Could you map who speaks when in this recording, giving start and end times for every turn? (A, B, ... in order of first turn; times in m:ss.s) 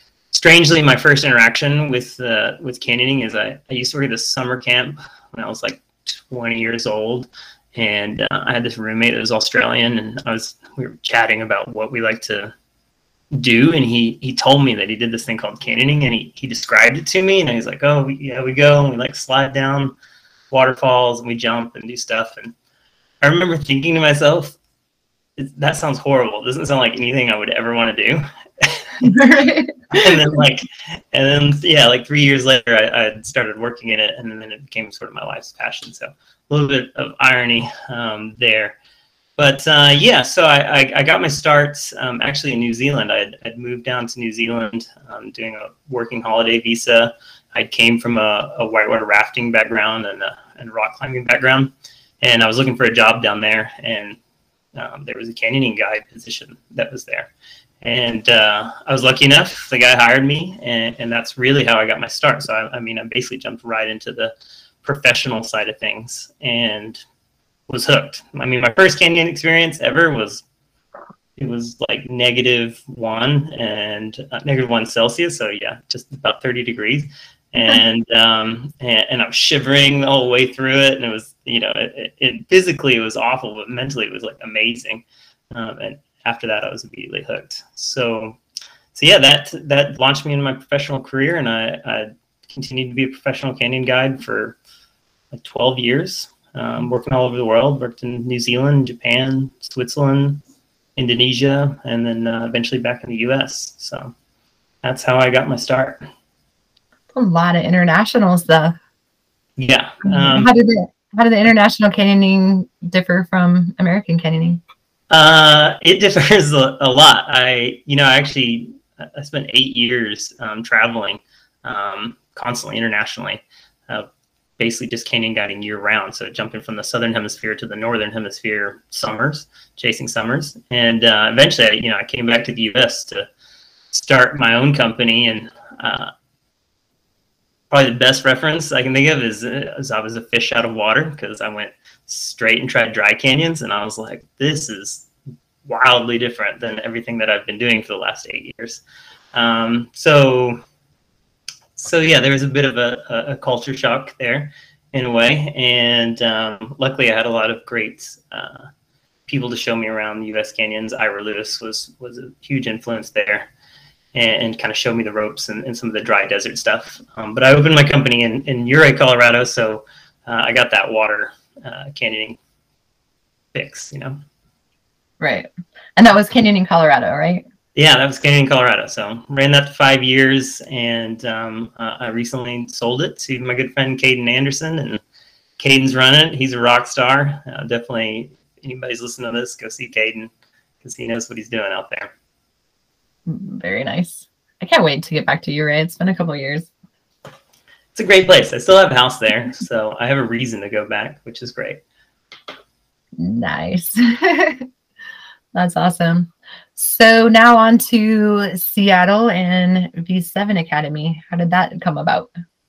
0:00.3-0:12.5 A
0:13.3-0:19.9 A
0:20.5-0:22.5 A
0:23.2-0:24.6 A
0:25.4-0:29.3 A
0:29.0-0:30.2 B
0:29.9-0:38.8 A
0:39.4-0:54.2 A
0:54.7-0:57.3 A
0:57.8-1:04.3 A
1:04.8-1:07.0 A
1:07.7-1:10.4 A
1:11.4-1:28.4 A
1:28.9-1:34.6 A
1:35.3-1:40.4 A
1:41.0-1:44.1 A
1:44.8-1:46.0 A
1:47.1-1:48.8 B
1:49.6-1:50.5 A
1:50.0-1:54.6 B
1:55.1-2:04.1 A
2:04.6-2:13.2 A
2:13.9-2:16.1 A
2:17.7-2:25.1 A
2:25.6-2:28.8 A
2:29.3-2:30.6 A
2:31.8-2:38.7 A
2:39.3-2:43.5 A
2:44.1-2:52.4 A
2:53.5-2:54.2 A
2:55.2-2:57.4 B
2:57.7-3:05.0 A
3:05.6-3:10.3 A
3:10.8-3:12.1 A
3:13.3-3:16.7 B
3:17.9-3:21.8 A
3:23.2-3:24.7 B
3:25.5-3:32.3 B